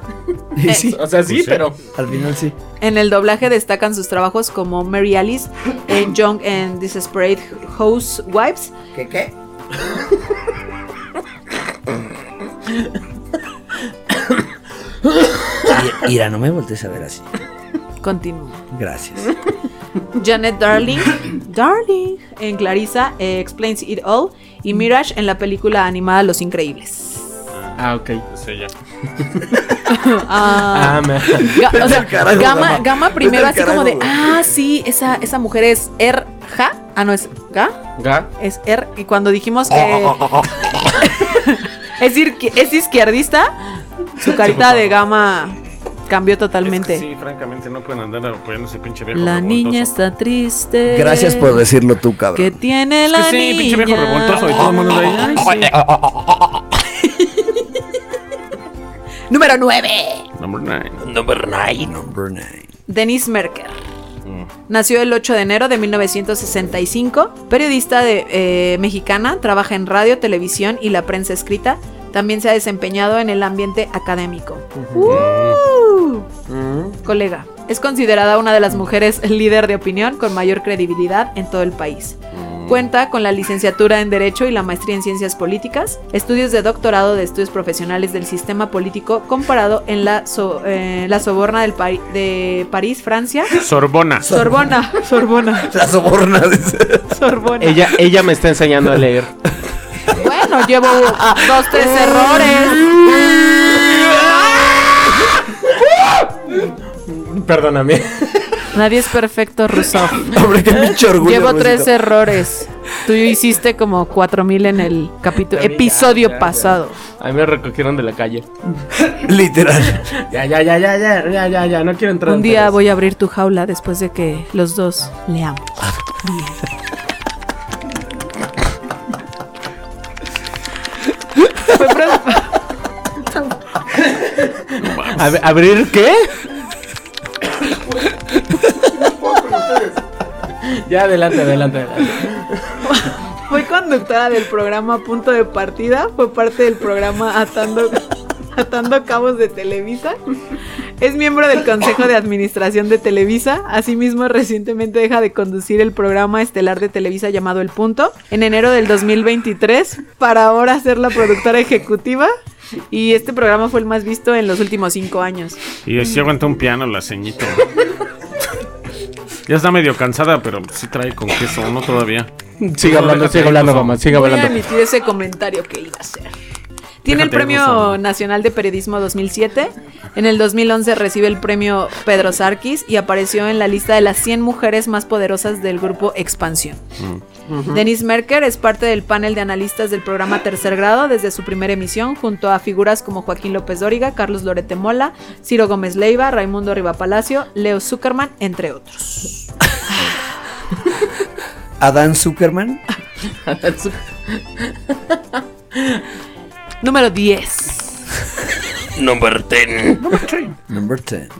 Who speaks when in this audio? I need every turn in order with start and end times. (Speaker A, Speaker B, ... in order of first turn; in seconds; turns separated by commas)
Speaker A: 0.6-1.0, Speaker B: 0.7-0.9, Speaker C: 0.7-1.8, Speaker D: 1.3-1.6, Speaker A: 1.9-2.5, Speaker B: 2.8-8.7, Speaker A: 8.9-9.3, Speaker A: 15.7-17.3, Speaker B: 18.0-18.6, Speaker A: 18.7-19.3, Speaker B: 20.1-27.3, Speaker D: 27.5-28.7, Speaker C: 27.8-28.2, Speaker B: 29.8-37.8, Speaker C: 30.5-31.8, Speaker A: 31.5-34.2, Speaker C: 38.0-38.3, Speaker B: 38.4-43.5, Speaker B: 44.2-47.0, Speaker D: 44.3-44.8, Speaker D: 46.6-49.9, Speaker B: 49.1-51.6, Speaker A: 50.9-52.5, Speaker B: 52.3-55.7, Speaker D: 53.1-55.7, Speaker A: 55.8-56.2, Speaker B: 57.2-57.5, Speaker B: 59.3-60.3, Speaker D: 60.4-61.0, Speaker E: 61.0-61.9, Speaker A: 61.8-62.6, Speaker B: 62.9-63.8, Speaker B: 64.7-76.3, Speaker C: 74.8-75.2, Speaker D: 75.0-75.6, Speaker C: 76.5-77.0, Speaker B: 77.0-93.6, Speaker D: 82.3-82.8, Speaker D: 93.5-94.3, Speaker A: 94.2-94.7, Speaker B: 94.2-95.7, Speaker A: 95.6-97.2, Speaker B: 97.1-97.9, Speaker C: 97.6-99.3, Speaker B: 100.1-102.9, Speaker A: 100.8-105.4, Speaker C: 106.6-108.7, Speaker B: 108.7-110.4, Speaker A: 110.2-112.0, Speaker B: 111.1-117.0, Speaker C: 115.5-118.5, Speaker A: 119.0-120.0, Speaker C: 119.9-122.8, Speaker B: 122.2-126.6, Speaker B: 131.6-132.6, Speaker C: 134.2-136.4, Speaker D: 134.8-135.4, Speaker C: 139.2-139.8, Speaker C: 140.6-142.7, Speaker B: 142.8-150.2, Speaker B: 151.0-162.3, Speaker B: 162.9-165.6, Speaker D: 165.8-167.8, Speaker D: 169.5-174.0, Speaker C: 172.6-174.5, Speaker B: 174.1-176.3, Speaker B: 177.0-186.8, Speaker D: 177.1-178.0, Speaker D: 187.0-187.2, Speaker C: 187.5-187.8, Speaker B: 187.7-200.1, Speaker A: 201.8-202.8, Speaker C: 203.3-206.0, Speaker B: 206.8-208.0, Speaker E: 208.9-210.0, Speaker D: 210.0-210.6, Speaker A: 210.7-211.3